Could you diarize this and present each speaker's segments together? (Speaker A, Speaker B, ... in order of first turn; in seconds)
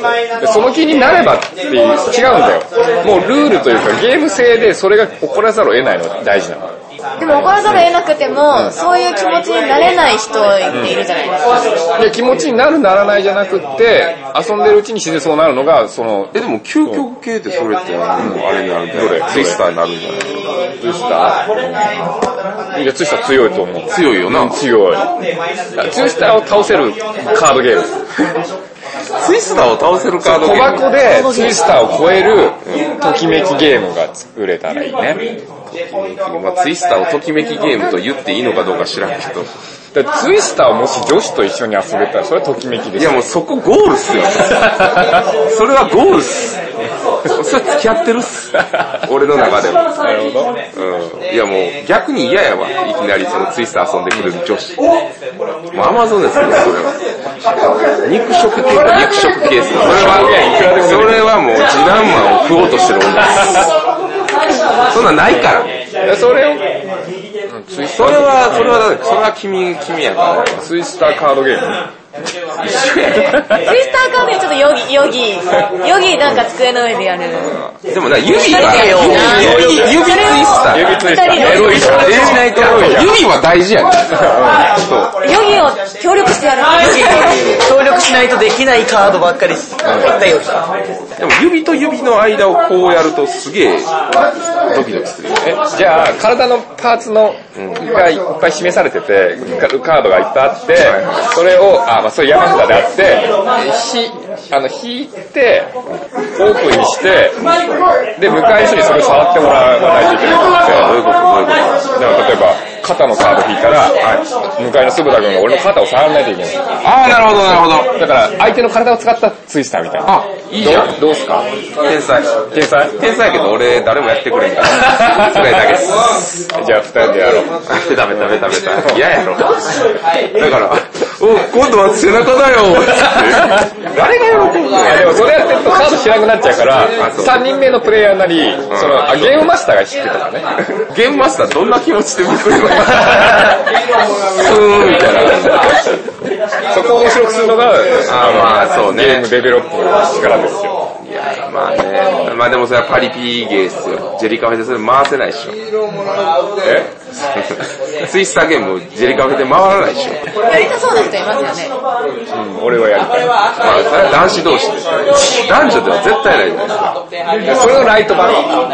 Speaker A: 0.4-7.9, 8.5-8.8, 10.7-10.9, 12.0-17.0, 18.2-19.6, 20.8-21.4, 22.7-25.0, 25.8-27.9, 30.2-35.2, 39.9-43.4, 50.0-50.5, 59.7-61.3, 66.0-66.7, 67.5-68.8, 70.6-71.8, 73.3-73.6, 79.1-80.0, 80.6-83.1, 84.1-84.8, 95.5-105.7, 106.3-107.5, 108.2-111.0, 112.0-114.0, 114.6-116.6, 118.0-121.4, 122.5-122.9, 124.9-125.7, 126.5-127.5, 128.1-129.0, 134.8-140.4, 145.2-145.7, 146.7-150.8, 156.6-156.9, 162.3-163.3, 167.4-168.6
Speaker B: 7.2-11.4, 73.5-77.6, 78.2-82.5, 85.2-87.4, 160.4-161.7
Speaker C: 16.3-20.4, 23.9-24.6, 29.2-31.0, 35.7-39.5, 42.9-44.9, 45.5-46.6, 47.3-49.8, 50.7-54.8, 55.7-57.0, 58.0-63.7, 64.9-65.8, 67.9-70.6, 72.6-73.4, 77.8-84.2, 84.7-85.1, 91.2-93.9, 94.6-95.6, 97.5-97.8, 100.8-101.3, 110.7-111.9, 113.7-114.2, 116.8-117.9, 120.0-121.0, 121.8-122.3, 123.0-126.2, 127.7-129.6, 130.3-135.4, 137.0-137.4, 138.7-139.5, 140.9-143.6, 144.3-145.8, 148.1-149.3, 151.0-155.6, 157.3-160.2, 163.6-166.9
Speaker D: 78.5-79.5, 86.8-90.9